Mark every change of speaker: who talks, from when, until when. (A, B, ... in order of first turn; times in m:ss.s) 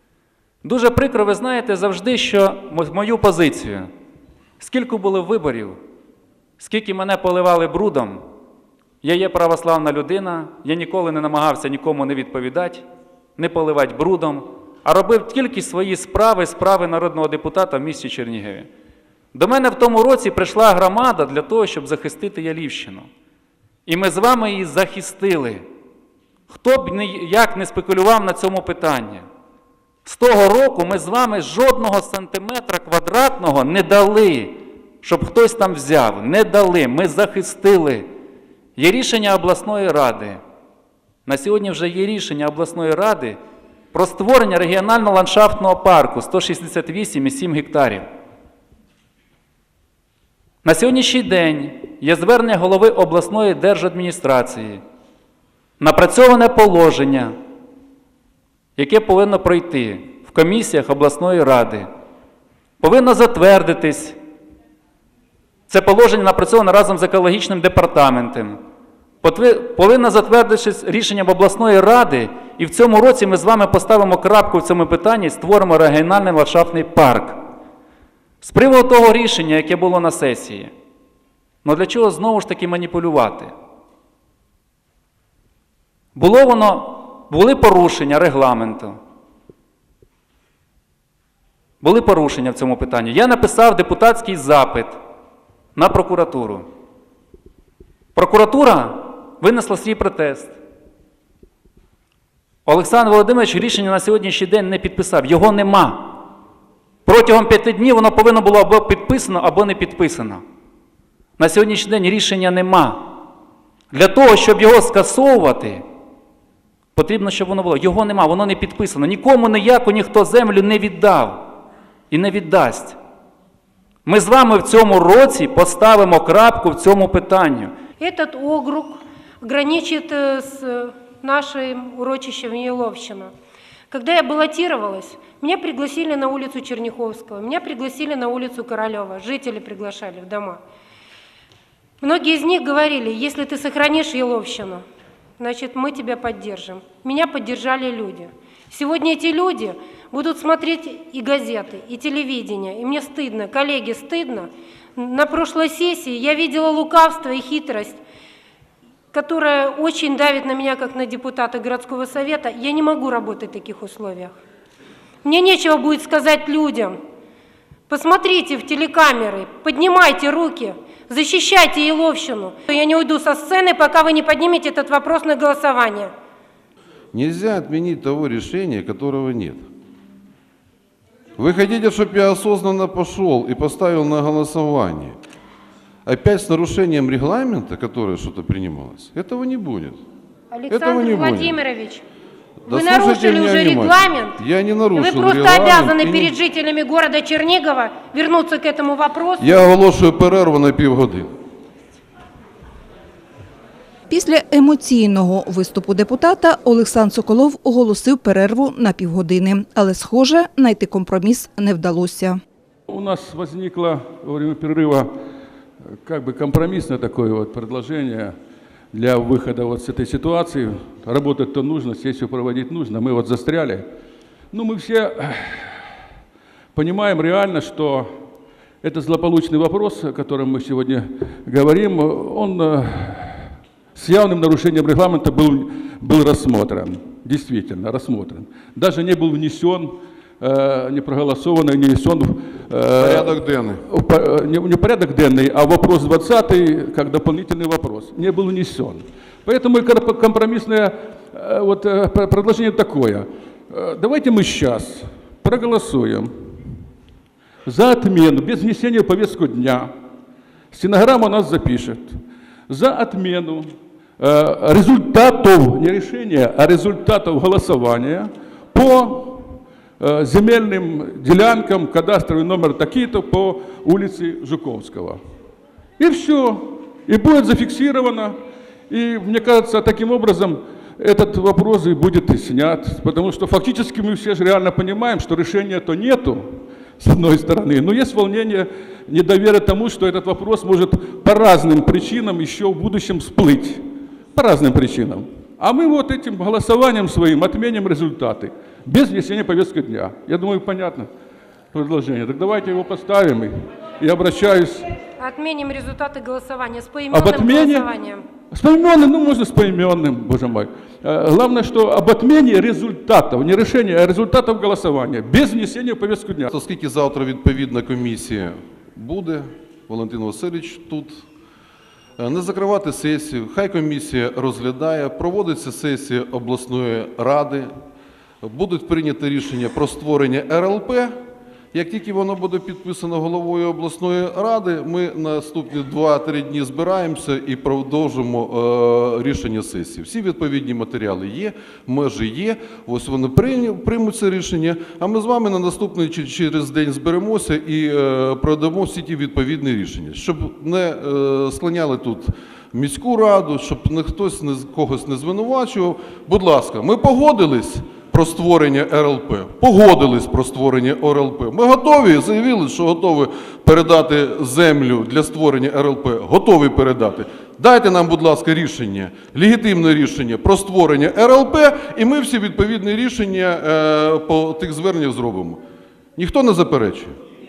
0:00.6-0:03.9 A
0:04.6-0:05.8 A
0:06.6-0:08.2 A
0:09.0-0:12.8 A
0:13.4-0:18.7 A
0:19.3-0:23.1 A
0:23.9-0:25.6 A
0:26.5-0:29.3 A
0:30.0-0:38.1 A
0:38.8-0:40.4 A
0:41.3-0:43.4 A
0:43.9-0:48.0 A
0:50.6-0:54.8 A
0:55.8-0:57.3 A
0:58.8-1:01.9 A
1:02.8-1:04.2 A
1:05.7-1:08.6 A
1:09.2-1:17.4 A
1:18.4-1:20.7 A
1:21.6-1:23.5 A
1:26.2-1:29.0 A
1:31.8-1:35.0 A
1:35.8-1:36.7 A
1:38.2-1:40.5 A
1:42.7-1:46.2 A
1:47.0-1:50.4 A
1:51.4-1:53.1 A
1:53.9-1:55.8 A
1:57.0-2:01.4 A
2:02.1-2:03.0 A
2:04.1-2:07.7 A
2:08.0-2:13.3 B
2:13.9-2:20.6 B
2:22.0-2:24.8 B
2:25.4-2:38.0 B
2:39.1-2:44.4 B
2:45.2-2:47.0 B
2:47.9-2:56.1 B
2:57.1-2:59.6 C
3:01.4-3:05.2 C
3:06.1-3:10.0 C
3:10.5-3:12.0 B
3:10.7-3:11.6 C
3:12.6-3:16.4 C
3:12.7-3:14.4 B
3:15.0-3:19.5 B
3:19.4-3:21.3 C
3:24.1-3:32.4 D
3:32.9-3:35.1 E
3:36.0-3:38.4 E
3:38.9-3:43.9 E
3:44.5-3:45.8 E
3:46.7-3:48.1 E
3:48.8-4:16.6 E
4:03.0-4:03.8 C
4:17.7-4:19.9 E
4:20.7-4:35.2 E
4:36.0-4:38.4 E
4:38.9-5:01.1 E
5:01.7-5:04.9 E
5:05.2-5:08.2 B
5:07.1-5:08.0 E
5:08.5-5:16.5 E
5:16.5-5:21.2 C
5:22.2-5:27.7 C
5:28.4-5:31.1 C
5:31.7-6:15.6 C
6:16.2-6:17.2 C